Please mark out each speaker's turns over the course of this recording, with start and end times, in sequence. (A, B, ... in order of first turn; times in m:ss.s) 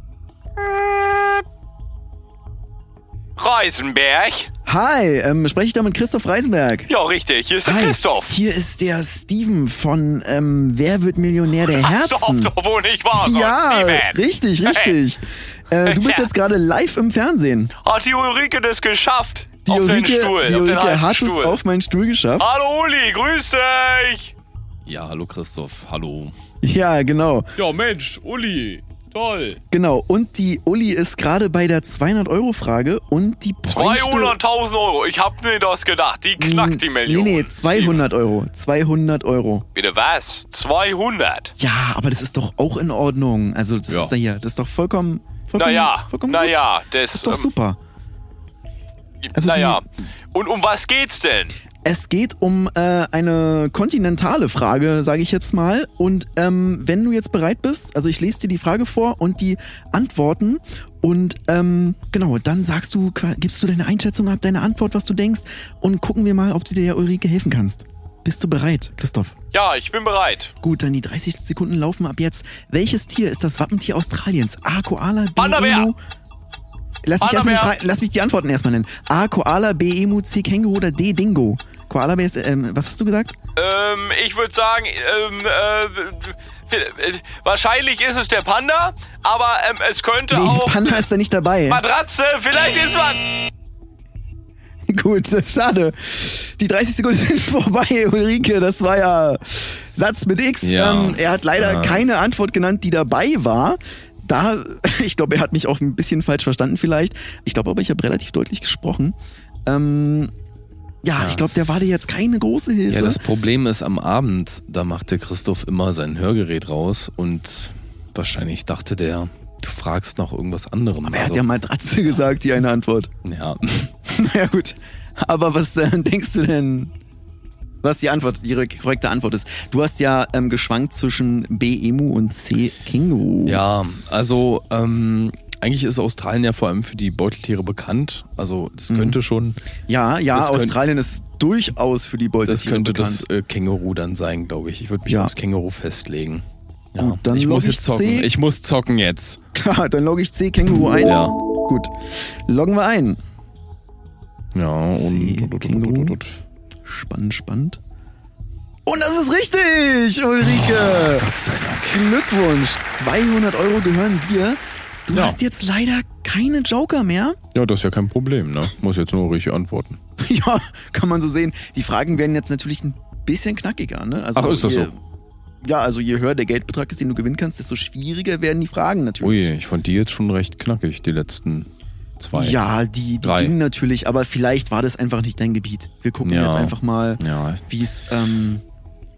0:03.4-0:04.5 A
0:04.7-0:06.9 B
0:06.9-0:08.4 A
0:07.6-0:12.5 B
0:11.7-0:15.0 A
0:13.1-0:17.7 B
0:15.8-0:16.3 A
0:17.8-0:21.6 A
0:19.7-0:22.5 B
0:22.4-0:24.3 A
0:24.9-0:26.3 C
0:26.6-0:27.5 B
0:27.6-0:29.6 A
0:29.7-0:34.4 B
0:33.7-0:38.0 A
0:36.4-0:39.7 B
0:39.8-0:41.5 A
0:41.6-0:47.8 B
0:45.6-0:47.5 A
0:49.2-0:51.6 A
0:49.3-0:49.8 B
0:51.8-1:09.4 B
1:09.5-1:10.5 A
1:10.6-1:16.0 B
1:15.4-1:15.9 A
1:17.0-1:23.4 B
1:17.2-1:17.8 A
1:23.6-1:31.0 A
1:30.3-1:31.8 B
1:31.7-1:33.3 A
1:34.9-1:50.3 B
1:40.6-1:42.0 C
1:51.0-1:53.2 B
1:51.2-1:51.4 C
1:52.9-2:01.4 C
2:01.0-2:03.1 B
2:03.2-2:03.9 C
2:04.1-2:06.9 B
2:07.8-2:13.6 B
2:13.5-2:19.6 C
2:18.9-2:19.2 B
2:19.9-2:23.3 B
2:20.3-2:20.8 C
2:22.5-2:29.4 C
2:25.1-2:25.3 B
2:27.0-2:28.3 B
2:29.5-2:31.9 B
2:31.0-2:31.4 C
2:32.5-2:33.2 B
2:34.6-2:36.4 C
2:34.9-2:36.2 B
2:36.8-2:37.8 B
2:38.9-2:41.3 B
2:40.5-2:42.0 C
2:41.8-2:47.4 B
2:45.1-2:45.4 C
2:47.5-2:50.0 C
2:50.2-2:55.0 B
2:54.4-2:54.9 C
2:55.6-2:59.5 B
2:59.2-3:02.6 C
3:02.3-3:08.6 B
3:03.2-3:03.5 C
3:06.2-3:07.6 C